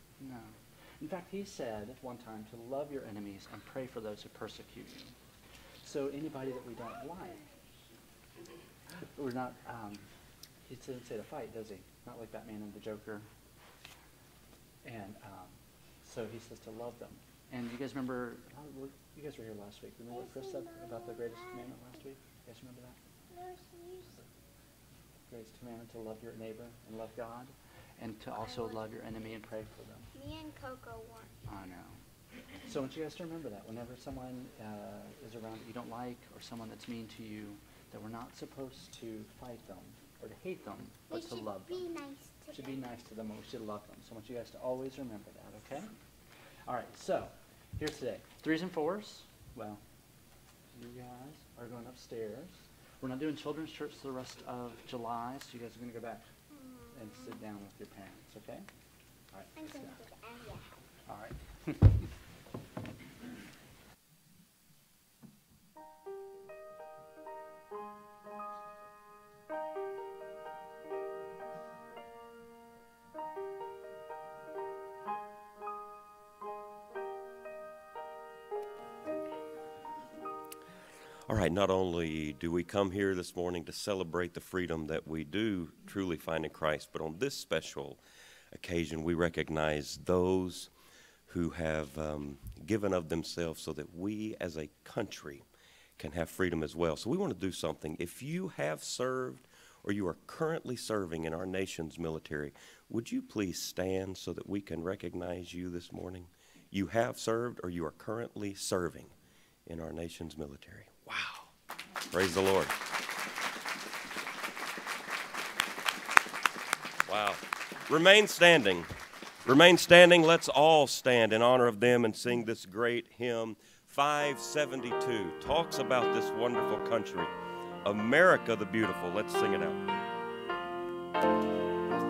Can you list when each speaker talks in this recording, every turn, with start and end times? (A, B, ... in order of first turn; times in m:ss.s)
0:00.2-0:05.1 A
0:05.8-0:07.5 A
0:09.2-0:10.1 A
0:10.7-0:13.2 A
0:14.8-0:23.0 A
0:20.1-0:21.8 B
0:23.3-0:24.2 B
0:25.3-0:30.1 A
0:28.3-0:29.4 B
0:30.1-0:31.3 B
0:31.4-0:32.0 A
0:32.6-0:41.8 A
0:41.1-0:42.8 B
0:42.5-0:45.9 A
0:46.6-0:49.8 A
0:50.7-0:56.3 A
0:56.5-0:57.3 B
0:56.9-0:58.6 A
0:59.3-1:00.0 A
0:59.6-1:00.7 B
1:01.1-1:02.1 A
1:21.3-1:28.0 C
1:28.5-1:30.7 C
1:31.3-1:35.4 C
1:36.0-1:49.1 C
1:49.6-1:51.5 C
1:52.1-1:52.7 C
1:57.1-1:58.9 C
1:59.4-2:07.3 C
2:07.8-2:09.8 C